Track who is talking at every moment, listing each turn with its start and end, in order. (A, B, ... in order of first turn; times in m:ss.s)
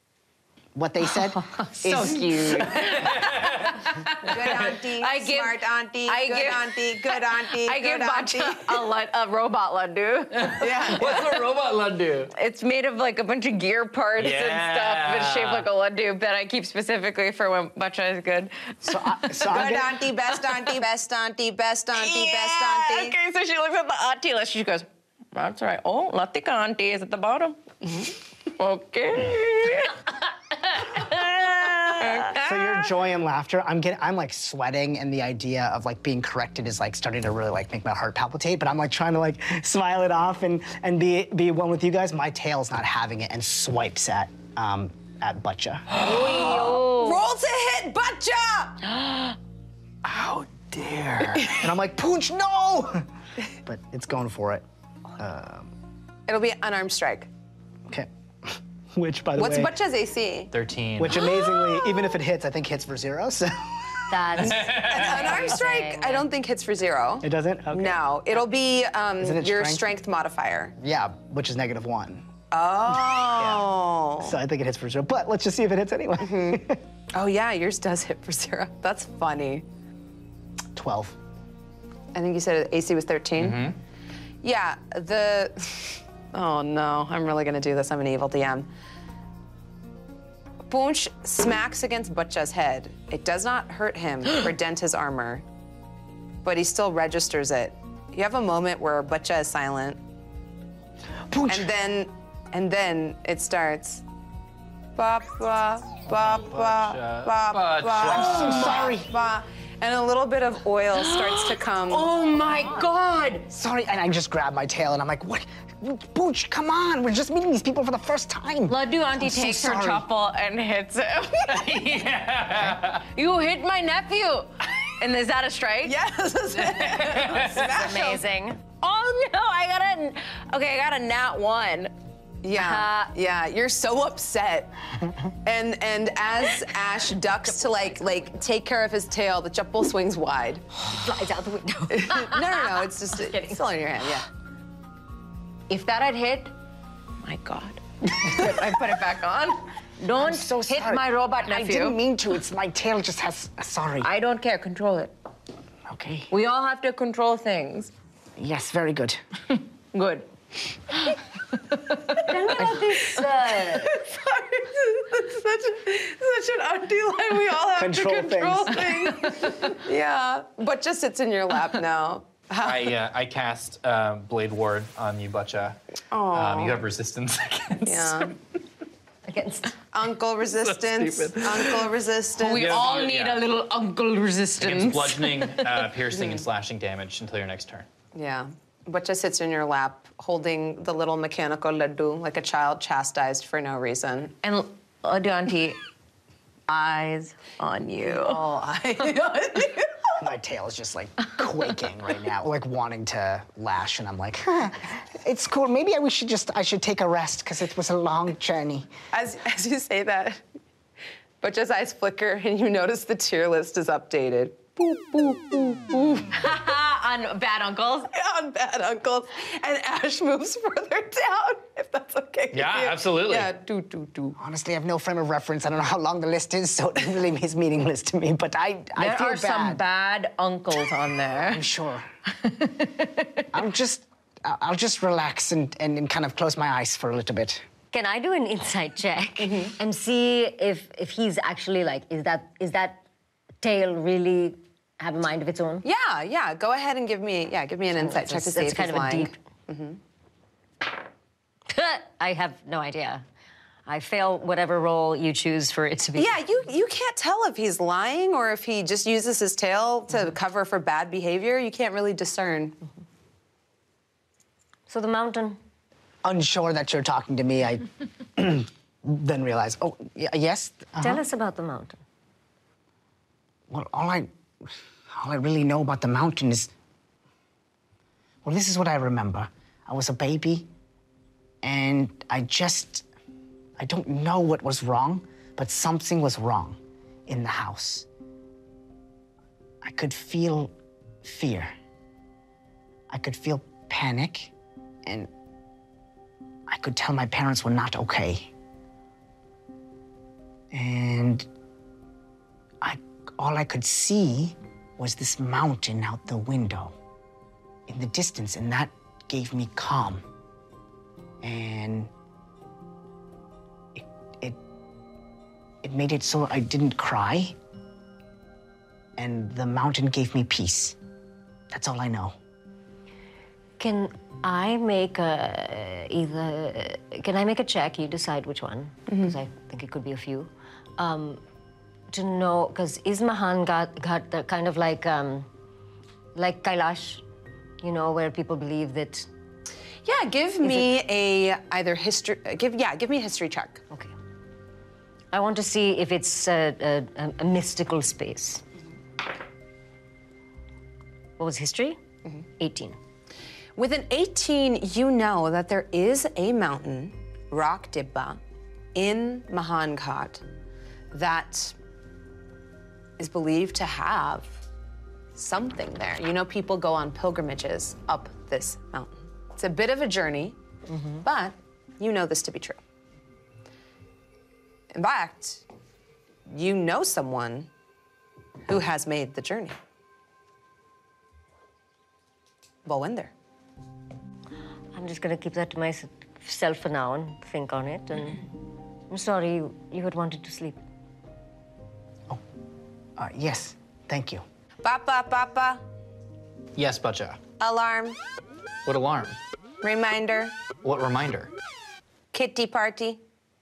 0:00.8-0:02.6 A
0:01.1-0:11.0 B
0:02.7-0:03.8 C
0:04.2-0:08.9 D
0:10.4-0:12.3 C
0:10.6-0:11.3 D
0:12.3-0:19.4 B
0:14.2-0:15.7 C
0:18.8-0:20.0 A
0:19.4-0:23.2 D
0:22.0-0:32.9 B
0:32.3-0:45.9 A
0:46.0-0:46.7 E
0:46.0-0:48.8 D
0:46.0-0:47.2 B
0:48.9-0:49.3 B
0:50.0-0:51.6 C
0:51.4-0:53.1 A
0:53.6-0:54.6 A
0:55.2-0:55.7 A
0:56.3-0:57.3 D
0:57.9-0:59.7 A
0:59.4-1:00.5 D
1:00.5-1:01.3 C
1:01.0-1:04.4 A
1:01.4-1:01.9 B
1:04.1-1:06.3 E
1:04.4-1:05.4 C
1:04.6-1:10.8 D
1:07.2-1:08.0 A
1:09.2-1:09.9 A
1:10.8-1:12.2 A
1:12.5-1:14.3 D
1:13.3-1:13.7 A
1:14.2-1:16.8 A
1:16.2-1:19.6 D
1:20.8-1:21.2 A
1:22.1-1:23.7 D
1:23.4-1:23.8 C
1:24.4-1:28.7 D
1:30.7-1:35.4 D
1:36.4-1:40.0 D
1:41.3-1:41.7 A
1:41.5-1:44.0 D
1:45.0-1:52.1 D
1:46.1-1:49.0 C
1:48.0-1:49.1 A
1:50.9-1:53.5 B
1:53.5-2:00.1 A
1:58.7-2:01.8 B
2:01.5-2:03.1 C
2:03.0-2:06.0 B
2:05.8-2:08.2 D
2:06.8-2:07.6 C
2:07.1-2:11.9 B
2:12.4-2:14.7 D
2:12.6-2:13.0 E
2:15.3-2:20.6 D
2:17.6-2:18.0 E
2:20.8-2:23.6 E
2:21.9-2:24.3 D
2:25.7-2:26.5 B
2:27.2-2:32.0 B
2:30.2-2:34.1 A
2:34.0-2:35.1 B
2:35.9-2:36.3 A
2:36.3-2:37.9 B
2:38.4-2:39.2 A
2:39.9-2:49.8 B
2:42.2-2:43.9 E
2:47.7-2:48.9 A
2:48.9-2:52.9 D
2:52.6-2:55.8 C
2:56.1-2:56.8 B
2:56.3-2:58.3 C
2:57.9-2:58.3 D
2:59.3-2:59.8 E
2:59.9-3:02.7 D
3:00.7-3:01.8 C
3:02.4-3:05.9 B
3:02.5-3:03.5 C
3:04.6-3:07.9 C
3:06.2-3:06.4 D
3:08.2-3:14.4 D
3:14.4-3:15.8 B
3:16.7-3:18.4 B
3:18.0-3:19.8 D
3:19.0-3:19.9 B
3:20.2-3:28.9 A
3:29.1-3:30.4 D
3:31.4-3:36.3 D
3:36.2-3:38.2 B
3:38.1-3:42.5 D
3:39.4-3:40.0 B
3:41.0-3:44.3 B
3:42.5-3:43.5 C
3:43.3-3:44.2 D
3:44.4-3:49.8 A
3:49.0-3:51.7 B
3:51.5-3:52.1 A
3:52.4-3:53.5 B
3:53.5-3:57.6 A
3:57.9-4:03.0 E
3:59.4-3:59.8 D
4:03.6-4:05.8 E
4:05.8-4:10.0 D
4:08.0-4:09.4 E
4:11.7-4:13.2 E
4:13.9-4:16.4 E
4:16.2-4:22.8 D
4:24.9-4:25.6 E
4:26.2-4:31.2 A
4:31.0-4:32.0 E
4:33.7-4:36.7 A
4:38.4-4:40.7 A
4:41.6-4:43.1 A
4:43.8-4:48.1 A
4:49.8-4:51.7 A
4:53.1-4:54.5 A
4:55.0-4:55.3 A
4:56.7-4:58.5 A
5:00.7-5:01.5 A
5:02.8-5:07.0 A
5:07.9-5:10.2 A
5:11.4-5:12.1 A
5:14.0-5:14.6 A
5:15.8-5:17.6 A
5:19.2-5:21.0 A
5:21.7-5:22.4 A
5:23.8-5:31.4 E
5:29.1-5:29.4 D
5:32.1-5:35.5 E
5:36.3-5:37.2 E
5:37.8-5:39.3 E
5:40.0-5:43.8 D
5:45.3-5:48.6 E
5:51.4-5:52.0 E
5:52.6-5:53.0 E
5:53.8-5:58.4 D
5:59.0-6:00.4 D
6:01.1-6:01.8 D
6:03.2-6:04.6 D
6:05.4-6:10.6 D
6:10.9-6:11.2 E
6:11.2-6:12.8 D
6:14.9-6:15.6 D
6:16.5-6:17.7 D
6:18.7-6:19.8 D
6:22.8-6:23.3 D
6:24.9-6:28.5 E
6:29.1-6:30.8 E
6:33.2-6:34.4 A
6:34.8-6:35.8 D
6:36.8-6:37.4 C
6:37.6-6:38.2 D
6:38.9-6:39.4 C
6:39.8-6:40.5 D
6:40.8-6:41.5 C
6:42.3-6:43.2 D